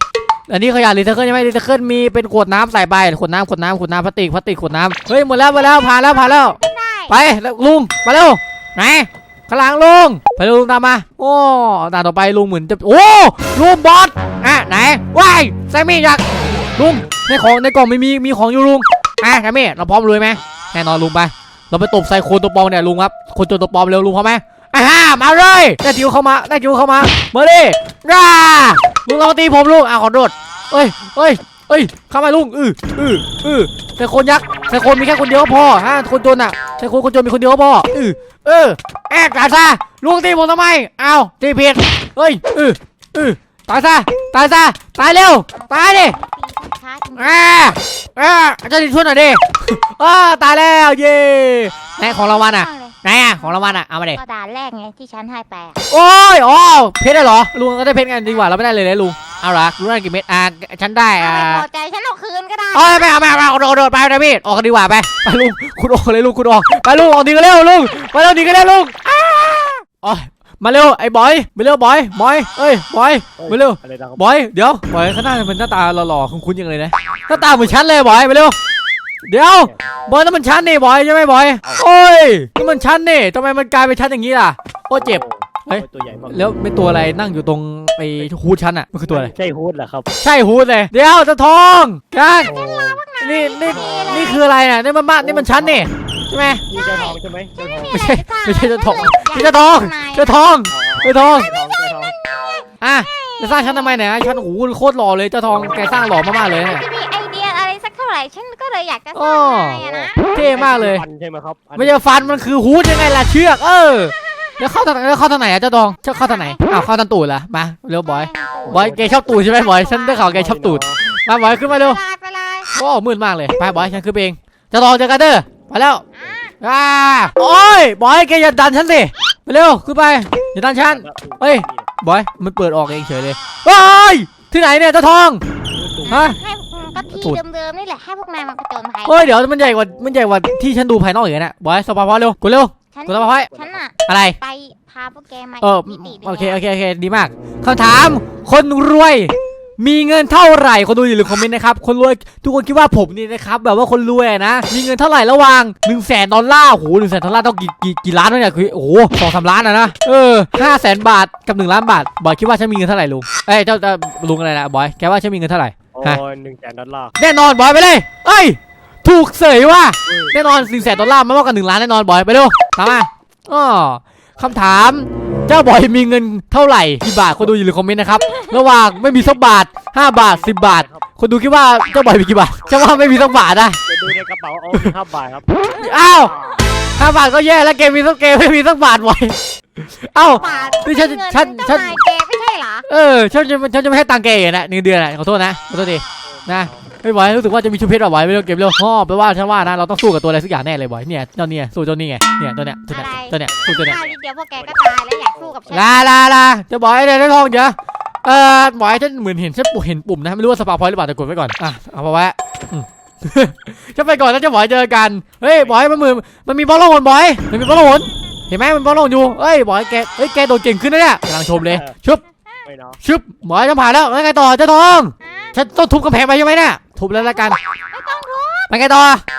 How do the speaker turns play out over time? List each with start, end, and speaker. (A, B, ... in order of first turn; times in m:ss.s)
0:00.5-0:46.2 A
0:05.8-0:07.2 B
0:45.5-0:47.5 B
0:47.2-0:54.2 A
0:52.0-0:55.8 B
0:55.9-1:01.6 A
1:01.1-1:03.2 B
1:02.7-1:18.6 A
1:13.4-1:14.2 C
1:17.3-1:17.8 C
1:19.2-1:29.3 A
1:25.0-1:26.4 C
1:29.1-1:30.1 C
1:30.2-1:32.6 A
1:32.4-1:34.5 B
1:32.4-1:33.0 C
1:33.2-1:36.6 A
1:33.6-1:34.4 C
1:35.2-1:35.9 C
1:36.6-1:38.0 C
1:36.7-1:40.4 B
1:37.9-1:41.5 A
1:40.7-1:42.1 C
1:41.8-1:44.0 B
1:42.8-1:46.8 A
1:45.5-1:46.0 C
1:46.2-1:50.3 B
1:49.1-1:51.0 A
1:49.8-1:52.5 C
1:51.7-2:02.0 A
1:56.0-1:56.9 B
1:58.0-2:00.4 B
1:58.7-1:59.2 C
2:00.3-2:01.0 C
2:01.6-2:02.7 B
2:02.7-2:06.0 A
2:06.2-2:06.6 B
2:06.6-2:15.4 A
2:10.9-2:11.9 C
2:15.7-2:16.2 C
2:16.0-2:19.3 B
2:16.1-2:16.4 A
2:17.1-2:17.4 A
2:19.0-2:23.5 A
2:22.9-2:26.6 B
2:23.5-2:23.8 C
2:24.1-2:24.4 A
2:25.6-2:46.2 A
2:45.9-2:47.2 C
2:47.2-3:03.8 A
2:50.1-2:50.3 C
3:00.1-3:01.0 C
3:03.9-3:05.5 C
3:05.7-3:06.3 A
3:06.3-3:06.6 C
3:07.0-3:12.0 A
3:10.3-3:12.9 B
3:10.4-3:10.9 C
3:12.9-3:24.0 A
3:16.4-3:16.8 C
3:22.9-3:26.0 B
3:23.4-3:24.8 C
3:25.3-3:25.9 C
3:25.7-3:42.2 A
3:41.6-3:41.9 C
3:42.6-3:43.0 C
3:43.0-3:47.6 A
3:45.2-3:45.6 B
3:47.1-3:48.7 B
3:48.7-3:49.2 A